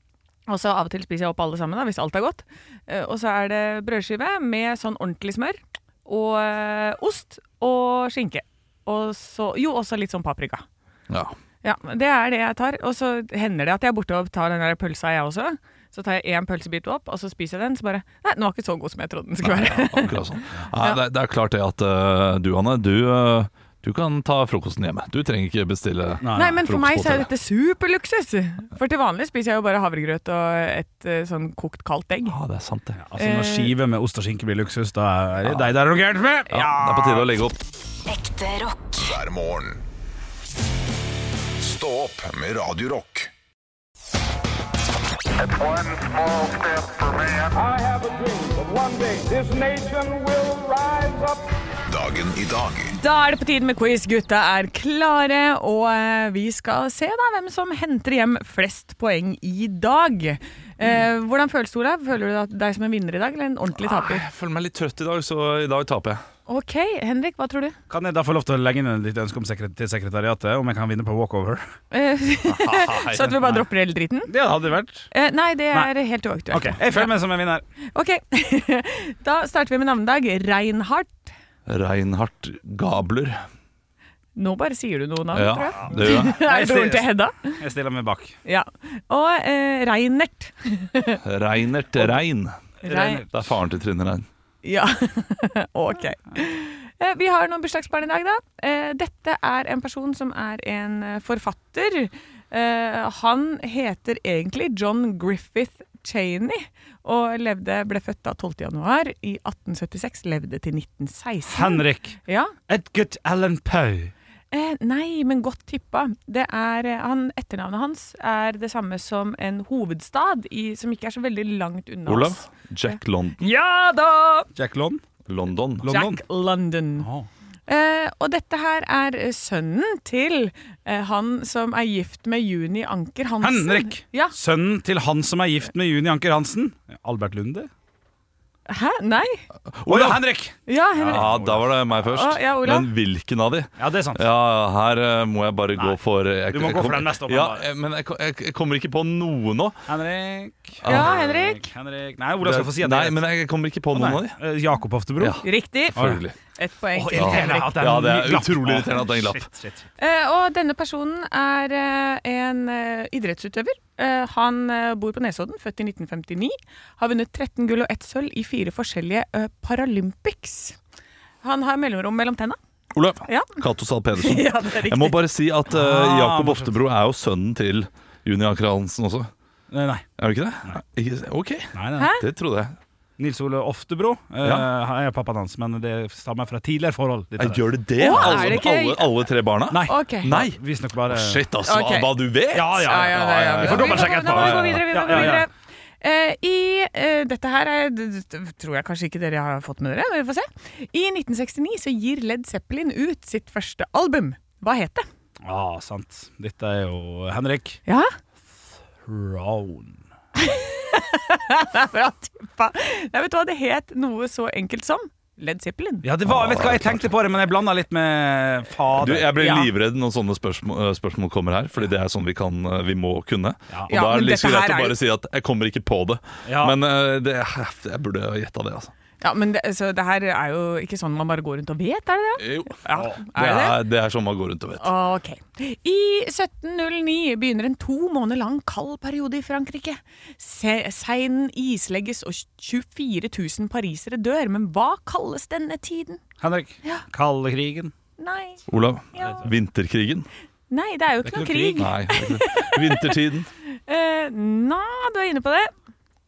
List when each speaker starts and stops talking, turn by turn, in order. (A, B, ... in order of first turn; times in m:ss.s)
0:00.5-0:10.6 A
0:11.6-0:20.2 A
0:19.4-0:27.3 B
0:26.2-0:26.6 C
0:26.3-0:32.4 A
0:32.2-0:33.0 B
0:33.0-0:36.6 C
0:33.2-0:33.7 A
0:36.5-0:37.6 B
0:36.5-0:37.3 A
0:38.0-0:39.8 D
0:41.6-0:43.3 D
0:47.5-0:51.3 E
0:47.8-0:50.6 C
0:51.9-0:53.0 D
0:52.9-1:04.2 A
1:03.8-1:06.2 B
1:06.5-1:07.8 A
1:07.9-1:11.6 C
1:11.9-1:14.3 A
1:12.5-1:13.6 C
1:12.8-1:13.3 B
1:14.3-1:15.1 C
1:15.1-1:17.1 A
1:16.5-1:17.6 C
1:17.9-1:21.3 A
1:21.7-1:23.4 B
1:24.4-1:27.6 A
1:25.3-1:26.4 B
1:26.0-1:28.4 C
1:28.4-1:31.2 A
1:31.2-1:32.6 B
1:32.8-1:33.2 A
1:32.8-1:33.3 C
1:33.3-1:34.2 B
1:34.6-1:52.5 A
1:51.5-1:52.2 C
1:52.7-1:54.1 C
1:54.5-2:04.5 A
2:02.0-2:03.5 B
2:04.5-2:05.0 C
2:05.2-2:05.9 B
2:05.8-2:06.2 C
2:05.9-2:07.1 A
2:07.0-2:07.3 C
2:07.7-2:14.3 A
2:13.4-2:17.7 C
2:18.7-2:19.4 A
2:19.7-2:20.2 B
2:19.9-2:21.7 C
2:20.7-2:21.3 A
2:21.0-2:29.8 B
2:22.0-2:22.9 A
2:23.8-2:24.2 C
2:26.5-2:27.6 C
2:29.9-2:33.2 C
2:30.8-2:31.2 B
2:30.8-2:31.7 A
2:32.4-2:34.4 B
2:33.9-2:36.2 C
2:35.2-2:36.4 B
2:35.4-2:37.8 A
2:36.9-2:39.9 C
2:37.1-2:39.4 B
2:40.0-2:50.8 A
2:51.4-2:52.6 A
2:52.9-2:59.3 B
2:53.3-2:53.6 A
2:54.2-2:55.2 A
2:55.7-2:56.7 C
2:59.7-3:00.0 C
3:00.2-3:02.8 B
3:01.7-3:02.1 C
3:02.0-3:02.2 A
3:03.2-3:08.6 C
3:07.4-3:15.4 B
3:08.0-3:09.2 A
3:09.7-3:11.4 C
3:09.9-3:10.3 A
3:11.6-3:12.1 A
3:12.5-3:15.5 C
3:12.7-3:25.1 A
3:25.4-3:27.8 C
3:29.0-3:30.0 C
3:30.4-3:36.1 A
3:36.0-3:39.3 C
3:36.2-3:37.1 B
3:39.0-3:48.9 B
3:39.4-3:39.7 A
3:43.9-3:45.0 A
3:46.4-3:46.8 C
3:49.2-3:53.8 A
3:52.4-3:54.9 B
3:52.9-3:53.2 C
3:54.8-4:06.2 A
4:06.4-4:07.9 C
4:08.2-4:09.4 A
4:08.7-4:10.3 B
4:10.7-4:15.7 A
4:11.2-4:11.9 C
4:11.8-4:13.5 B